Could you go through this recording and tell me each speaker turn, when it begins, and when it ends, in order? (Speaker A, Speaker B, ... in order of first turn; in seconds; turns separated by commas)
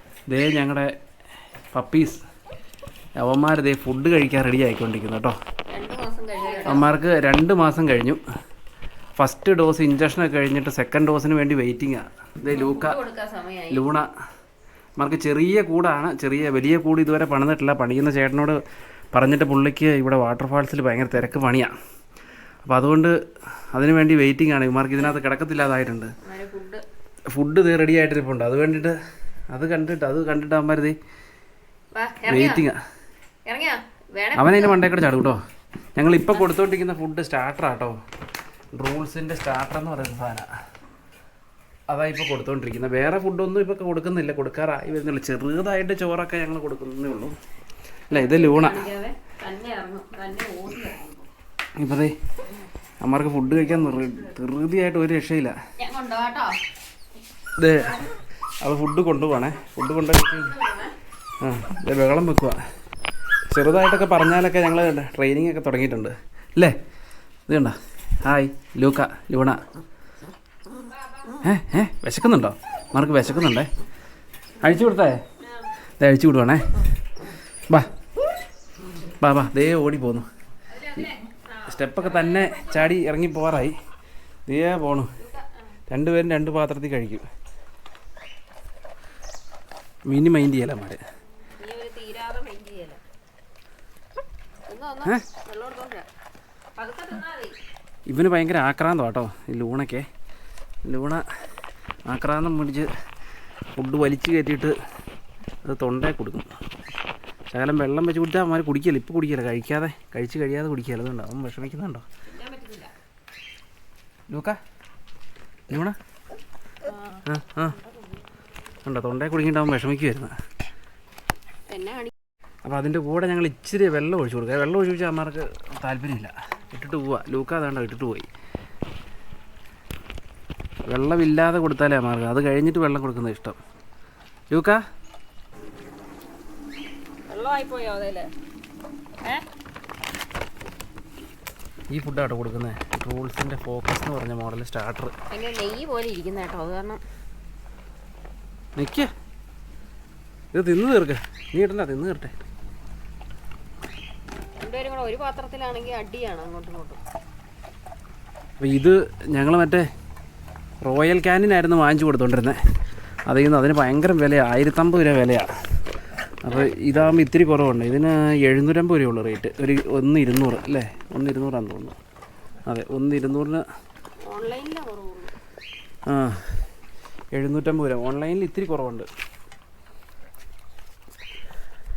Speaker A: 0.3-0.9, Speaker A: 1.7-2.2, Speaker A: 3.2-5.3, Speaker B: 5.7-6.9, Speaker A: 6.6-8.2, Speaker A: 9.2-13.0, Speaker B: 12.5-13.9, Speaker A: 13.7-14.1, Speaker A: 15.0-18.6, Speaker A: 19.1-21.7, Speaker A: 22.6-23.1, Speaker A: 23.7-26.1, Speaker B: 26.2-26.8, Speaker A: 27.3-28.9, Speaker A: 29.5-30.9, Speaker B: 31.9-32.6, Speaker A: 32.3-32.8, Speaker B: 33.5-34.8, Speaker A: 34.4-35.4, Speaker A: 36.0-38.0, Speaker A: 38.7-40.5, Speaker A: 41.9-47.4, Speaker A: 48.1-48.8, Speaker B: 48.1-51.3, Speaker A: 51.8-52.1, Speaker A: 53.0-55.5, Speaker B: 55.8-56.6, Speaker A: 57.6-58.1, Speaker A: 58.6-60.5, Speaker B: 60.2-60.9, Speaker A: 61.4-62.6, Speaker A: 63.5-66.7, Speaker A: 67.5-69.6, Speaker B: 70.9-71.4, Speaker A: 71.4-73.7, Speaker A: 74.6-75.2, Speaker B: 75.4-75.7, Speaker A: 76.0-76.8, Speaker A: 79.2-80.3, Speaker B: 80.7-82.9, Speaker A: 81.6-83.8, Speaker A: 84.5-85.1, Speaker B: 85.2-85.7, Speaker A: 85.9-87.2, Speaker A: 90.1-91.0, Speaker B: 91.6-93.0, Speaker B: 94.7-96.1, Speaker B: 96.8-97.6, Speaker A: 98.1-100.0, Speaker A: 100.8-101.2, Speaker A: 102.1-102.9, Speaker A: 103.7-104.7, Speaker A: 105.6-106.5, Speaker A: 107.5-112.0, Speaker B: 112.3-112.9, Speaker A: 114.3-114.6, Speaker A: 115.7-116.0, Speaker B: 116.8-118.2, Speaker A: 117.2-117.8, Speaker A: 118.8-120.3, Speaker B: 121.7-122.1, Speaker A: 122.6-128.3, Speaker A: 130.9-133.6, Speaker A: 134.5-134.8, Speaker B: 137.3-138.3, Speaker A: 141.9-145.1, Speaker B: 145.3-147.0, Speaker A: 148.8-149.1, Speaker A: 150.5-152.3, Speaker B: 154.6-157.0, Speaker A: 158.6-159.8, Speaker A: 160.8-162.6, Speaker A: 163.3-165.6, Speaker A: 166.4-171.9, Speaker A: 172.7-173.6, Speaker B: 174.2-175.3, Speaker A: 176.1-176.6, Speaker A: 177.3-179.1